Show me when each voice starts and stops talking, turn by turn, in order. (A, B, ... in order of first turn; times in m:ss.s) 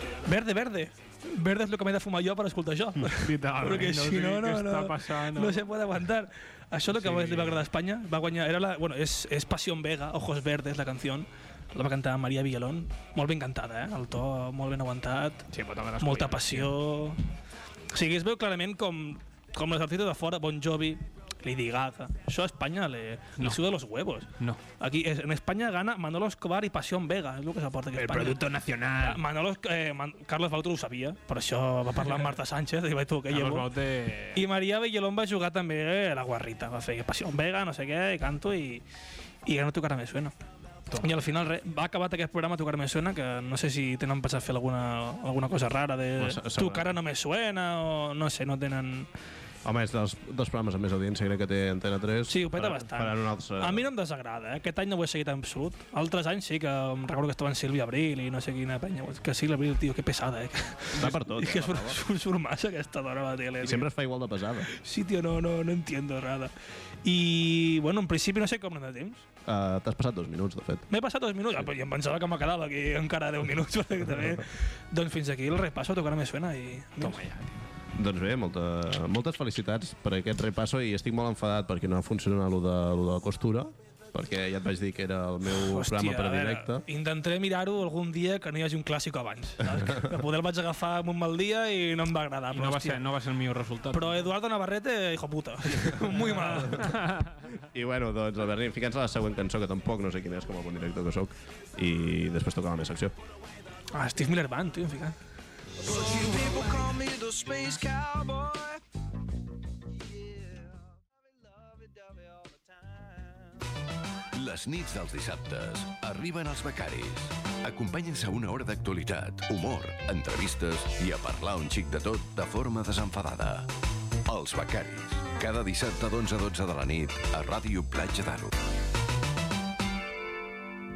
0:00.2-0:15.4 A
0:03.1-0:05.6 B
0:06.9-0:07.6 B
0:15.5-0:16.7 B
0:16.0-0:17.2 A
0:17.9-0:28.4 A
0:27.9-0:29.2 B
0:29.0-0:33.7 A
0:32.0-0:32.3 B
0:33.3-0:34.4 B
0:34.3-0:38.8 A
0:39.4-0:40.3 A
0:41.0-0:49.1 A
0:46.2-0:46.9 C
0:49.6-0:53.9 C
0:52.3-1:03.9 A
1:00.9-1:02.0 C
1:03.6-1:04.7 C
1:04.7-1:06.5 A
1:07.0-1:09.3 A
1:09.4-1:10.9 C
1:10.9-1:17.2 A
1:17.0-1:17.5 B
1:17.9-1:26.8 C
1:25.5-1:33.0 A
1:29.7-1:30.1 C
1:32.5-1:34.3 B
1:33.9-1:37.0 A
1:36.4-1:43.1 C
1:36.7-1:37.3 B
1:43.9-1:45.2 A
1:45.8-1:48.8 D
1:50.4-1:50.7 D
1:51.5-1:52.9 D
1:54.3-2:03.7 E
2:04.3-2:08.5 E